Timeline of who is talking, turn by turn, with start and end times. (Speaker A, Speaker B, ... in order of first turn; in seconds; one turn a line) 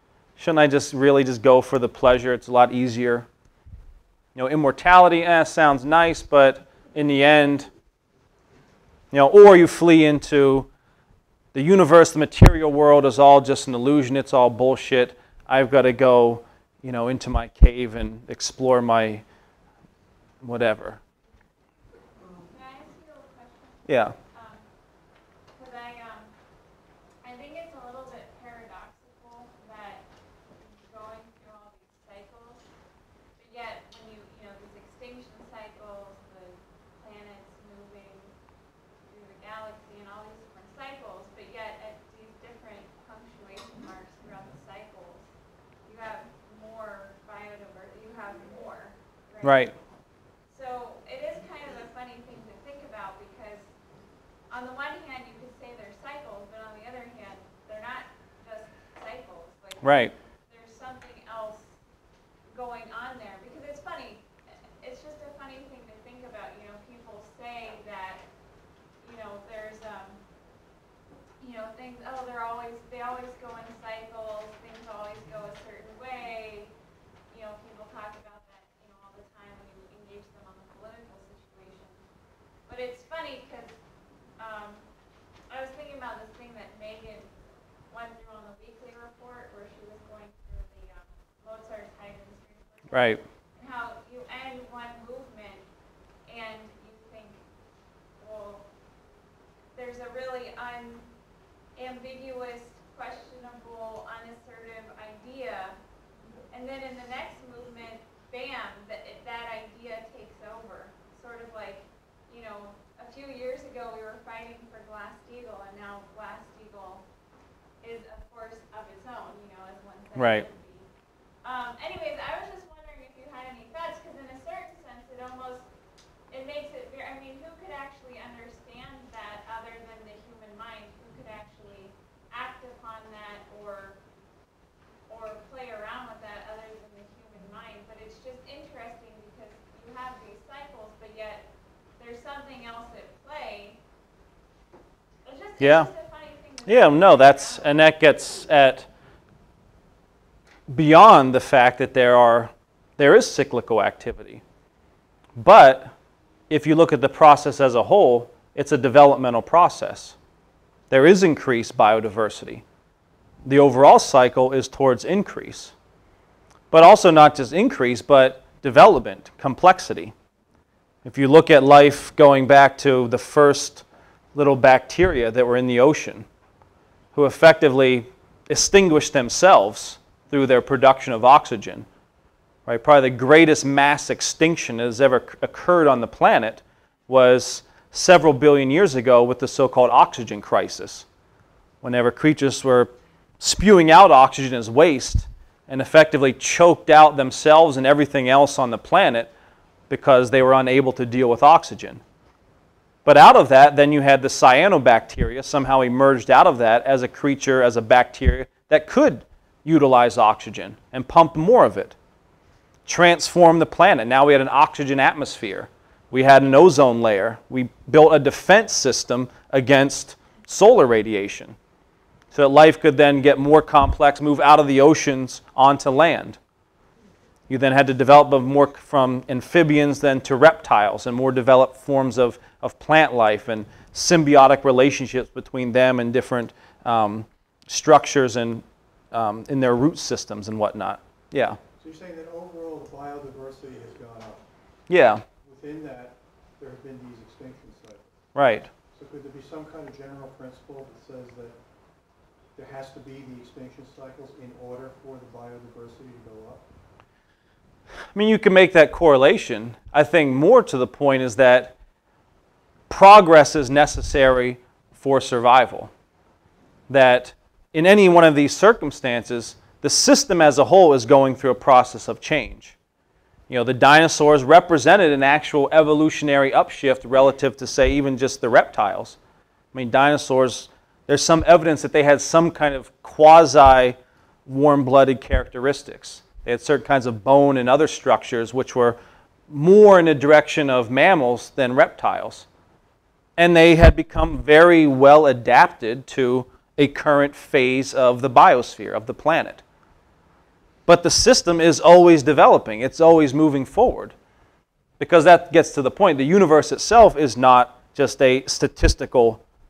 Speaker A: 0.4-3.3
Speaker A: 4.3-7.7
Speaker A: 9.1-10.7
Speaker A: 11.5-19.2
Speaker A: 20.4-21.0
Speaker B: 22.5-24.7
Speaker A: 23.9-24.1
Speaker B: 25.5-26.3
Speaker B: 27.2-32.6
Speaker B: 33.4-38.3
Speaker B: 39.1-45.3
Speaker B: 45.9-49.7
Speaker A: 49.4-49.7
Speaker B: 50.5-53.7
Speaker B: 54.5-61.7
Speaker A: 59.8-60.1
Speaker B: 62.5-64.3
Speaker B: 64.8-68.2
Speaker B: 69.0-70.2
Speaker B: 71.4-76.7
Speaker B: 77.3-82.0
Speaker B: 82.7-83.8
Speaker B: 84.4-84.9
Speaker B: 85.5-87.3
Speaker B: 87.9-95.7
Speaker A: 92.9-93.2
Speaker B: 96.3-97.4
Speaker B: 98.2-98.7
Speaker B: 99.7-101.1
Speaker B: 101.8-105.8
Speaker B: 106.5-117.0
Speaker B: 117.8-120.9
Speaker A: 120.2-120.5
Speaker B: 121.4-125.7
Speaker B: 126.3-134.0
Speaker B: 135.1-141.5
Speaker B: 142.0-143.8
Speaker B: 145.2-148.0
Speaker A: 145.6-145.9
Speaker A: 146.7-148.9
Speaker A: 150.7-154.4
Speaker A: 155.4-155.9
Speaker A: 156.5-160.2
Speaker A: 160.9-162.6
Speaker A: 163.5-165.7
Speaker A: 166.7-170.1
Speaker A: 171.1-176.3
Speaker A: 177.1-181.9
Speaker A: 182.7-191.1
Speaker A: 191.8-199.3
Speaker A: 199.9-202.0
Speaker A: 203.1-211.9
Speaker A: 212.9-221.6
Speaker A: 222.3-226.4
Speaker A: 227.5-241.6
Speaker C: 241.8-244.4
Speaker A: 244.9-245.2
Speaker C: 245.4-248.1
Speaker A: 248.3-248.7
Speaker C: 248.9-251.6
Speaker C: 252.6-256.6
Speaker A: 258.1-261.8
Speaker A: 262.9-265.9
Speaker A: 266.9-272.8
Speaker A: 273.5-279.2
Speaker A: 279.7-284.0
Speaker A: 284.5-289.0
Speaker A: 289.5-292.5
Speaker A: 293.4-299.6
Speaker A: 300.9-304.1
Speaker A: 305.0-309.4